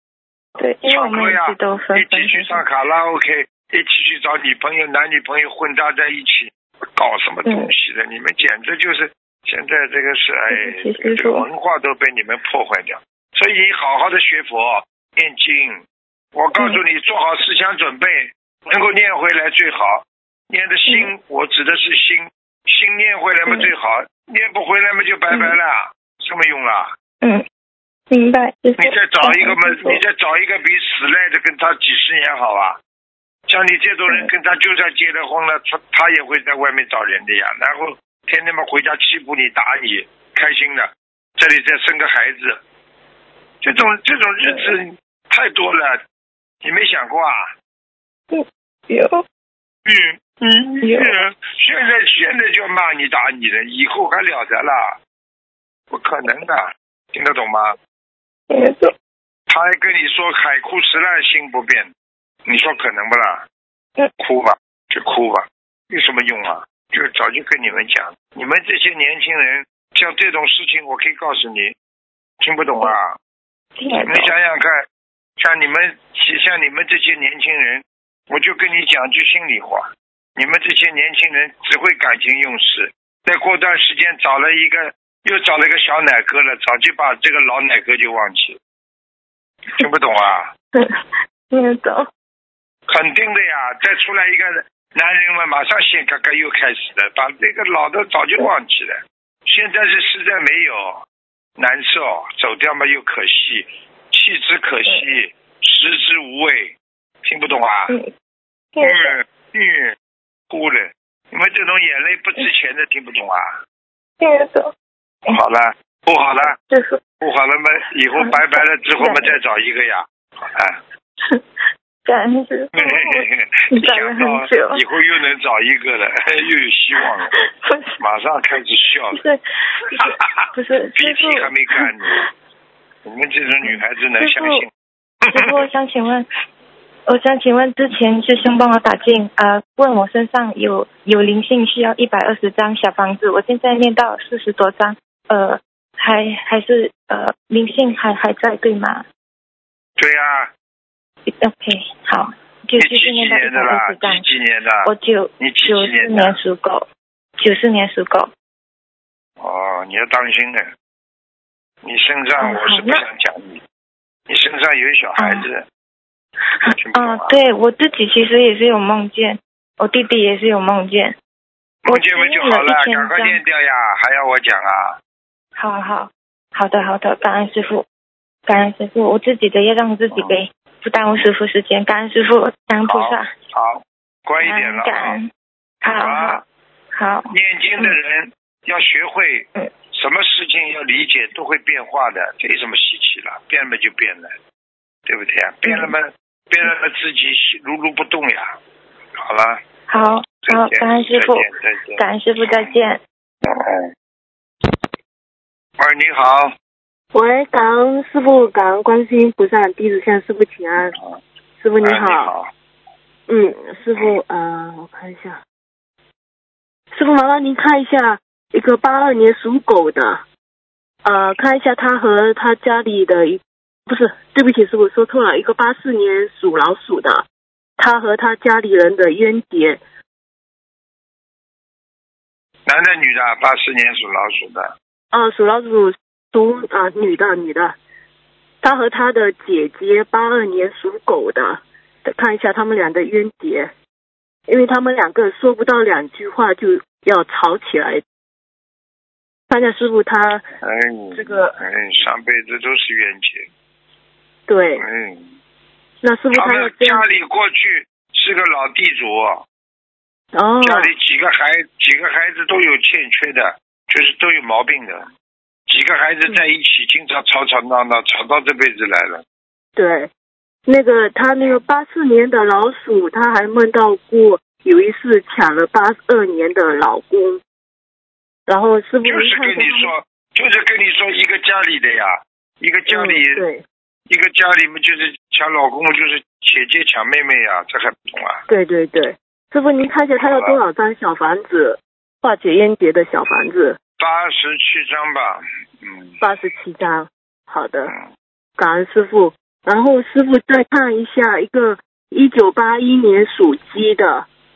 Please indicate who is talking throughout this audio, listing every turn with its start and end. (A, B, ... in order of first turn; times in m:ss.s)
0:00.6-0:02.6 A
0:00.8-0:15.8 B
0:07.4-0:07.7 A
0:10.5-0:11.4 A
0:16.3-0:26.9 B
0:16.6-0:16.8 A
0:23.4-0:23.7 A
0:25.3-0:25.6 A
0:28.1-0:30.0 A
0:28.8-0:32.8 B
0:33.5-0:42.6 B
0:43.6-0:46.0 B
0:44.5-0:44.8 A
0:46.6-0:47.5 B
0:48.3-0:49.2 A
0:49.8-0:55.0 B
0:50.8-0:51.2 A
0:55.9-0:57.8 B
0:58.5-0:58.9 A
0:59.5-1:01.9 B
1:02.4-1:03.4 B
1:04.2-1:11.7 B
1:12.4-1:13.2 B
1:13.8-1:14.3 A
1:14.0-1:14.8 B
1:15.4-1:28.6 B
1:29.8-1:30.5 B
1:30.7-1:31.0 A
1:31.5-1:32.1 A
1:32.9-1:41.0 B
1:41.6-1:47.9 B
1:48.7-1:49.2 A
1:48.8-1:50.0 B
1:50.5-1:53.6 B
1:54.2-1:54.7 A
1:55.3-1:56.6 B
1:56.4-1:57.0 A
1:57.2-2:00.8 B
1:58.1-1:59.4 A
2:02.0-2:04.8 A
2:02.7-2:07.3 B
2:07.0-2:07.9 A
2:08.0-2:09.2 B
2:09.1-2:12.2 A
2:09.9-2:12.2 B
2:13.0-2:14.7 B
2:13.6-2:14.6 A
2:15.2-2:15.6 B
2:15.3-2:16.3 A
2:17.1-2:29.0 A
2:30.0-2:30.5 B
2:31.3-2:34.2 A
2:32.8-2:36.4 B
2:34.8-2:36.8 A
2:37.4-2:38.3 A
2:39.4-2:40.7 B
2:41.8-2:43.6 B
2:42.4-2:43.0 A
2:44.3-2:45.6 B
2:45.2-2:45.5 A
2:46.8-2:47.3 B
2:46.9-2:51.2 A
2:51.8-2:55.0 B
2:51.9-2:53.4 A
2:55.6-2:57.8 A
2:58.5-3:03.3 A
3:02.8-3:05.2 B
3:04.4-3:05.3 A
3:05.8-3:08.0 A
3:05.9-3:06.4 B
3:07.3-3:14.3 B
3:15.0-3:18.5 B
3:15.6-3:15.9 A
3:19.2-3:19.6 B
3:19.9-3:23.0 A
3:20.4-3:22.7 B
3:23.4-3:23.9 B
3:25.8-3:26.5 B
3:27.1-3:30.9 C
3:30.8-3:31.2 B
3:31.6-3:32.3 C
3:31.8-3:32.5 B
3:33.3-3:35.4 C
3:36.9-3:40.2 C
3:41.0-3:47.2 C
3:47.8-3:49.8 C
3:52.6-3:54.7 B
3:55.1-3:57.8 C
3:58.6-4:03.7 C
4:04.5-4:08.0 C
4:09.5-4:10.4 C
4:10.6-4:13.5 B
4:11.1-4:11.5 C
4:14.5-4:14.8 C
4:14.8-4:15.3 B
4:16.0-4:17.1 C
4:16.3-4:19.4 B
4:20.3-4:20.9 C
4:20.6-4:25.1 B
4:25.7-4:29.2 B
4:29.8-4:30.1 C
4:30.6-4:37.4 C
4:38.5-4:39.9 C
4:39.0-4:43.4 B
4:42.9-4:43.6 C
4:44.1-4:48.4 B
4:48.5-4:53.8 C
4:50.2-4:50.6 B
4:54.0-4:56.2 B
4:56.2-4:57.9 C
4:58.6-5:04.3 C